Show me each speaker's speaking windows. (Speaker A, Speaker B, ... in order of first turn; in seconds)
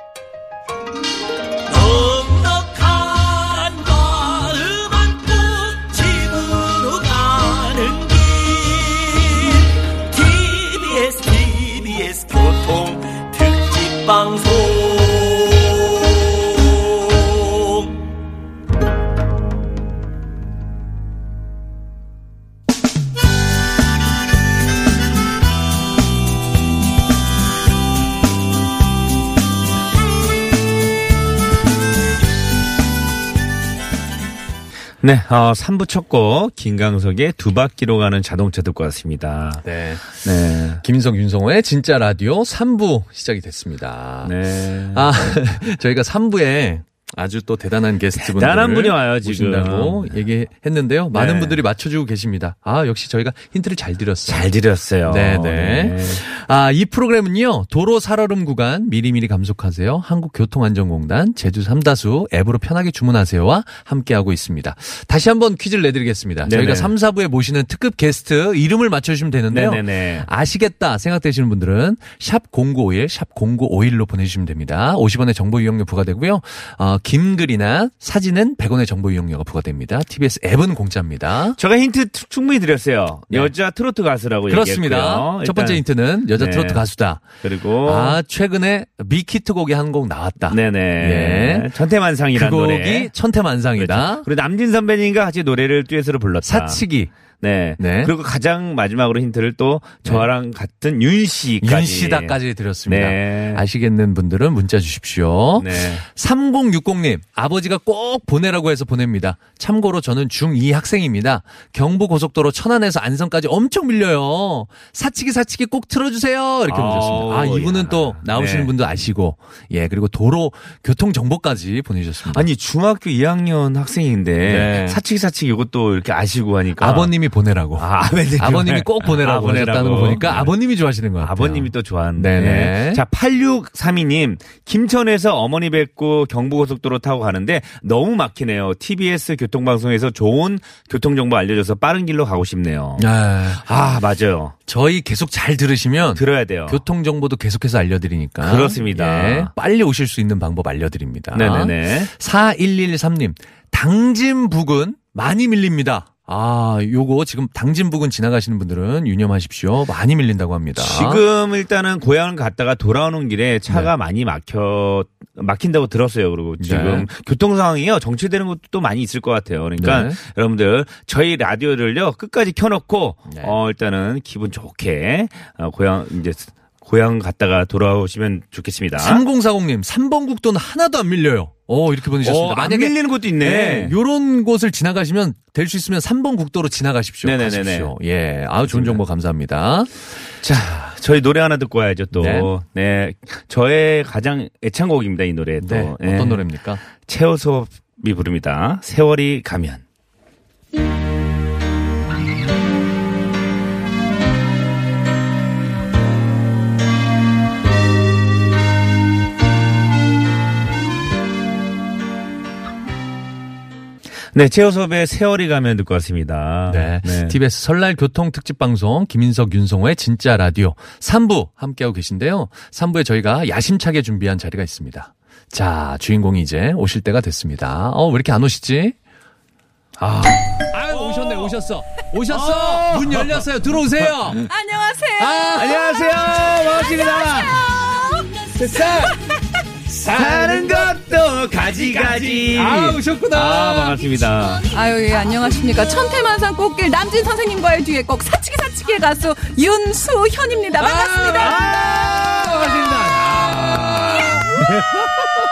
Speaker A: 1.6-18.0
Speaker B: 35.0-39.7, 40.2-40.8, 44.2-45.1, 48.2-50.1, 51.1-51.6, 54.3-56.2, 66.5-66.9, 69.5-70.3, 81.6-85.8, 86.3-88.2, 90.5-93.1, 93.8-96.8, 97.4-103.6, 105.6-106.0, 116.7-118.7, 122.3-127.1, 127.8-130.5, 131.2-144.5, 146.2-146.8, 148.4-149.5, 151.3-152.1, 160.8-179.2, 182.2-183.9, 187.2-187.9, 188.7-189.0, 190.4-196.5, 197.0-199.8, 214.3-217.4, 230.0-231.5, 232.3-233.5, 234.0-234.5, 235.6-237.7, 240.1-244.7, 251.4-255.3
Speaker C: 39.6-40.2, 40.8-44.3, 44.9-54.5, 55.1-81.6, 84.5-91.7, 92.3-94.3, 96.4-97.1, 97.8-98.1, 101.6-122.5, 124.5-125.0, 126.8-133.0, 143.0-143.6, 144.7-161.2, 166.6-167.1, 169.8-170.2, 173.3-173.6, 179.0-189.9, 192.1-192.5, 195.6-196.8, 216.7-229.0, 230.7-234.5, 235.2-236.2, 238.5-239.2, 239.9-241.0, 241.5-244.7, 250.8-255.1
Speaker D: 234.5-238.9, 244.7-252.1